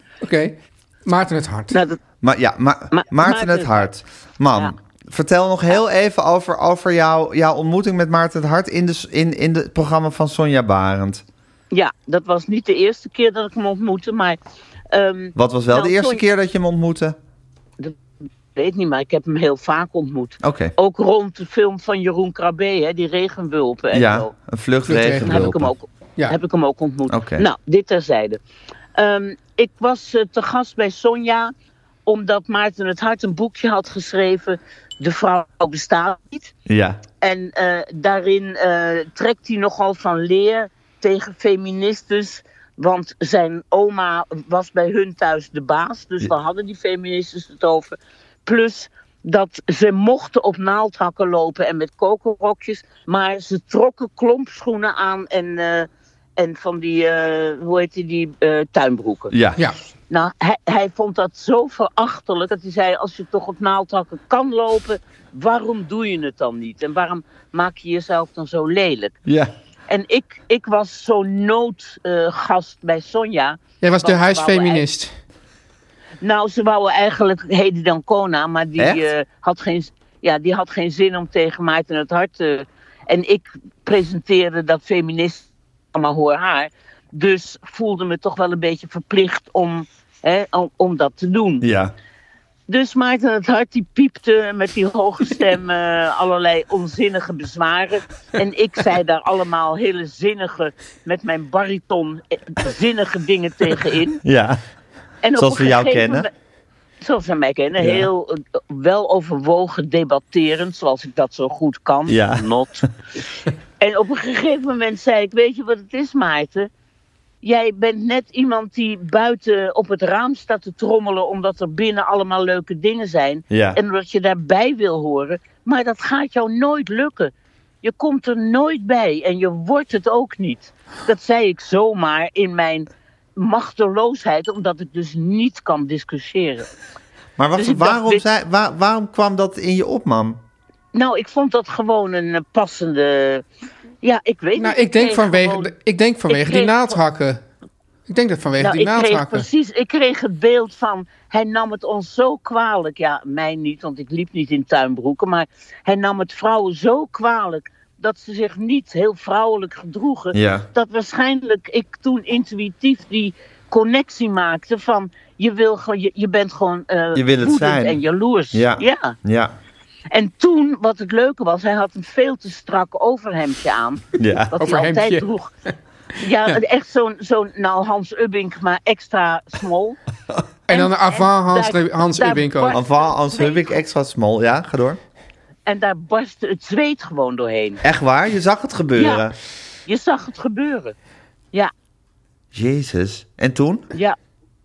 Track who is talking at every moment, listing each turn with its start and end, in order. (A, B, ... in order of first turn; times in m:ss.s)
0:00.2-0:01.8 A
0:01.7-0:02.0 B
0:02.2-0:11.2 C
0:02.9-0:03.9 B
0:11.7-0:14.4 B
0:14.9-0:16.2 B
0:15.4-0:17.2 C
0:18.6-0:24.3 B
0:20.4-0:20.7 C
0:23.9-0:25.7 C
0:24.9-0:25.5 A
0:25.2-0:28.4 B
0:27.1-0:27.5 C
0:29.0-0:31.5 B
0:32.1-0:36.5 B
0:36.7-0:37.0 C
0:37.2-0:59.4 B
0:59.3-0:59.6 C
1:00.1-1:09.2 B
1:09.3-1:09.5 C
1:09.9-1:14.8 B
1:13.8-1:15.1 A
1:16.2-1:31.7 B
1:31.6-1:31.9 C
1:32.7-1:44.2 B
1:44.2-1:44.6 C
1:45.2-1:46.3 B
1:45.4-1:46.3 C
1:47.0-1:52.9 B
1:47.8-1:48.1 C
1:52.1-1:52.5 C
1:53.8-1:56.7 B
1:57.4-2:07.3 B
2:03.5-2:03.8 C
2:07.8-2:16.7 B
2:17.4-2:20.4 C
2:17.6-2:18.2 B
2:20.9-2:23.4 B
2:24.0-2:25.7 B
2:24.6-2:27.4 A
2:26.3-2:27.0 B
2:28.1-2:29.5 A
2:28.6-2:49.2 B
2:40.3-2:40.7 C
2:47.2-2:48.0 C
2:48.5-2:49.6 C
2:50.1-2:55.5 B
2:54.2-2:54.6 C
2:54.6-2:55.3 A
2:56.2-3:00.0 B
3:00.7-3:02.8 A
3:00.7-3:03.8 B
3:02.7-3:05.0 C
3:05.7-3:07.8 B
3:07.8-3:09.4 C
3:09.0-3:09.3 B
3:09.9-3:11.0 B
3:12.5-3:13.9 C